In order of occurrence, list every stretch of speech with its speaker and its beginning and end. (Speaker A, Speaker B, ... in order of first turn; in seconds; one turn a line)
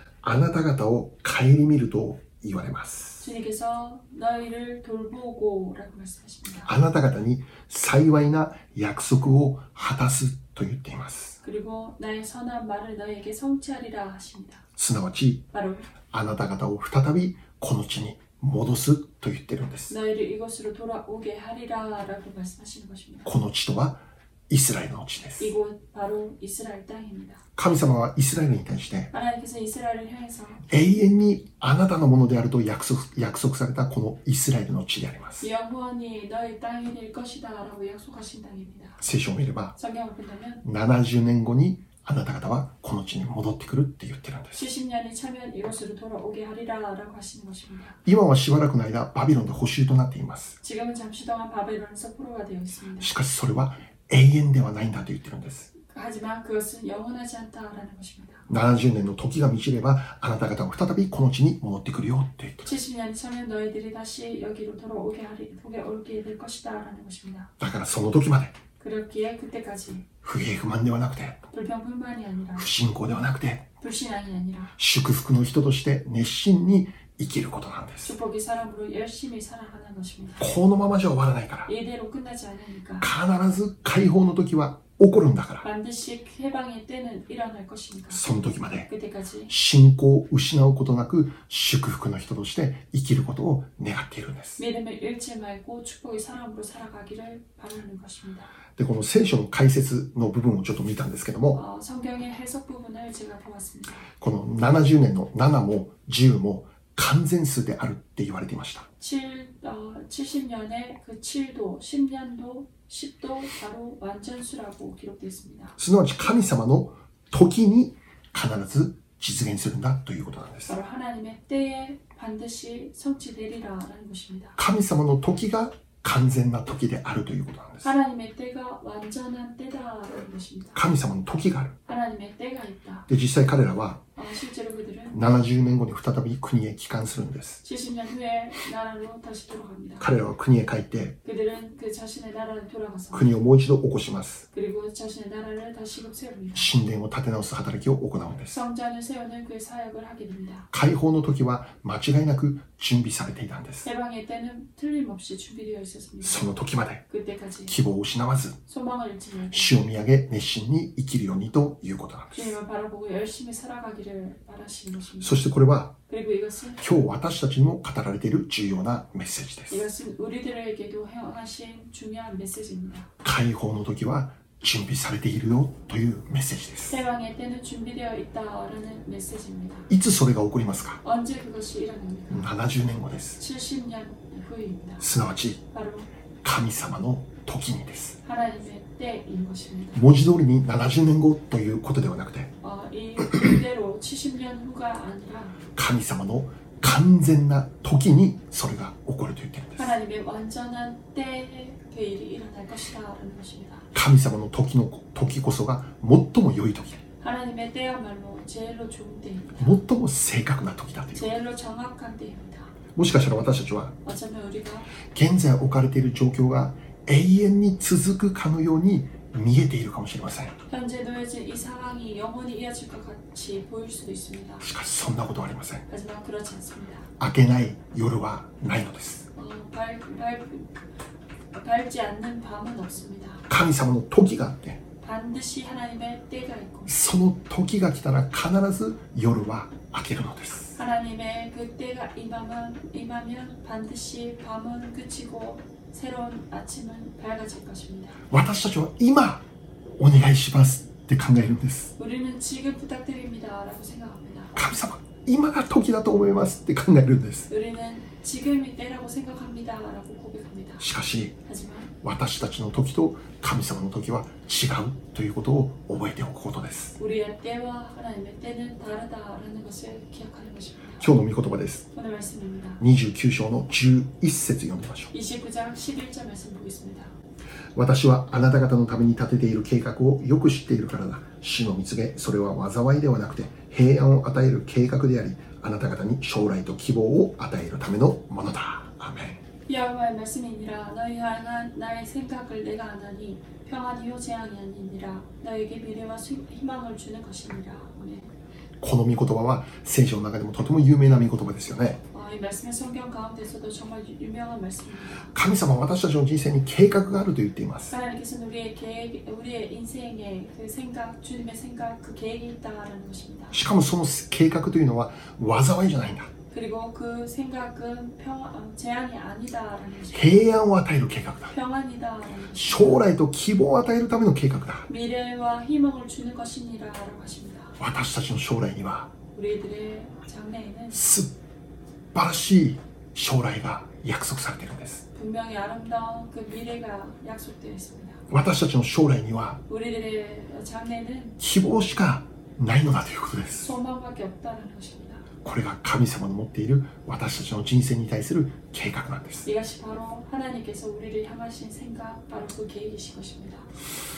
Speaker A: 0.2-3.3
Speaker B: 3.2-6.7
Speaker A: 6.7-11.4
Speaker B: 11.4-14.7
Speaker A: 14.8-15.4
Speaker B: 15.5-15.9
Speaker A: 16.1-19.9
Speaker B: 19.9-23.3
Speaker A: 23.2-25.5
Speaker B: 25.4-27.4
Speaker A: 27.6-29.1
Speaker B: 29.1-30.6
Speaker A: 30.7-35.5
Speaker B: 35.4-39.0
Speaker A: 39.0-39.8
Speaker B: 39.8-40.6
Speaker A: 40.6-44.7
Speaker B: 44.5-48.0
Speaker A: 48.0-50.6
Speaker B: 50.6-53.1
Speaker A: 53.0-55.7
Speaker B: 55.8-58.5
Speaker A: 58.5-62.8
Speaker B: 62.6-67.5
Speaker A: 67.6-68.5
Speaker B: 68.8-70.1
Speaker A: 70.2-71.5
Speaker B: 71.5-72.7
Speaker A: 72.5-73.7
Speaker B: 73.8-74.7
Speaker A: 74.8-78.2
Speaker B: 78.0-80.5
Speaker A: 80.4-81.7
Speaker B: 81.7-83.1
Speaker A: 83.0-85.7
Speaker B: 85.6-89.5
Speaker A: 88.1-88.9
Speaker A: 89.5-94.6
Speaker B: 94.6-98.5
Speaker A: 98.8-101.6
Speaker B: 101.5-104.1
Speaker A: 104.2-108.9
Speaker B: 109.0-115.8
Speaker A: 115.8-120.8
Speaker B: 120.7-124.6
Speaker A: 124.6-127.9
Speaker B: 127.8-130.8
Speaker A: 130.8-131.8
Speaker B: 131.9-133.1
Speaker A: 133.1-134.0
Speaker B: 134.2-135.2
Speaker A: 135.1-137.6
Speaker B: 137.6-140.1
Speaker A: 140.0-141.2
Speaker B: 141.2-143.3
Speaker A: 143.1-144.5
Speaker B: 144.5-146.7
Speaker A: 146.6-148.6
Speaker B: 148.5-150.7
Speaker A: 150.7-153.9
Speaker B: 153.8-156.5
Speaker A: 156.2-157.0
Speaker B: 157.1-157.8
Speaker A: 157.7-158.6
Speaker B: 158.7-159.8
Speaker A: 159.5-162.6
Speaker B: 162.3-165.4
Speaker A: 165.2-166.0
Speaker B: 166.1-166.8
Speaker A: 166.8-169.8
Speaker B: 169.7-173.1
Speaker A: 173.2-177.0
Speaker B: 176.9-179.9
Speaker A: 179.9-181.0
Speaker B: 181.0-182.5
Speaker A: 182.3-183.4
Speaker B: 183.4-185.1
Speaker A: 185.0-185.6
Speaker B: 185.7-186.1
Speaker A: 186.4-188.2
Speaker B: 188.2-190.1
Speaker A: 189.9-192.5
Speaker B: 192.6-195.6
Speaker A: 195.8-199.9
Speaker B: 199.8-203.9
Speaker A: 203.9-207.0
Speaker B: 207.2-209.8
Speaker A: 209.6-211.3
Speaker B: 211.2-212.7
Speaker A: 212.9-214.0
Speaker B: 214.1-214.9
Speaker A: 215.1-220.6
Speaker B: 220.7-224.7
Speaker A: 224.6-225.9
Speaker B: 225.9-227.1
Speaker A: 227.2-229.3
Speaker B: 229.3-230.8
Speaker B: 231.5-233.5
Speaker A: 233.5-234.8
Speaker B: 235.0-236.9
Speaker A: 236.9-240.8
Speaker B: 240.8-248.2
Speaker A: 248.3-249.4
Speaker A: 250.0-251.9
Speaker B: 252.0-254.6
Speaker A: 254.6-257.5
Speaker B: 257.5-260.9
Speaker A: 260.8-261.3
Speaker B: 261.4-261.9
Speaker A: 262.0-267.0
Speaker B: 267.0-271.1
Speaker A: 271.0-271.9
Speaker B: 271.9-272.8
Speaker A: 272.8-275.1
Speaker B: 275.1-277.1
Speaker A: 277.8-289.4
Speaker B: 289.7-298.3
Speaker A: 298.8-302.0
Speaker B: 302.1-305.3
Speaker A: 305.3-307.9
Speaker B: 307.9-313.6
Speaker A: 313.5-316.3
Speaker B: 316.5-320.6
Speaker A: 320.1-321.5
Speaker B: 321.5-323.1
Speaker A: 322.5-324.9
Speaker B: 324.9-327.8
Speaker A: 327.8-329.1
Speaker B: 329.3-331.0
Speaker A: 330.9-331.3
Speaker A: 332.1-335.1
Speaker B: 335.1-338.2
Speaker A: 338.3-339.6
Speaker B: 339.7-341.4
Speaker A: 341.4-343.7
Speaker B: 343.6-345.3
Speaker A: 345.4-349.5
Speaker B: 349.5-353.7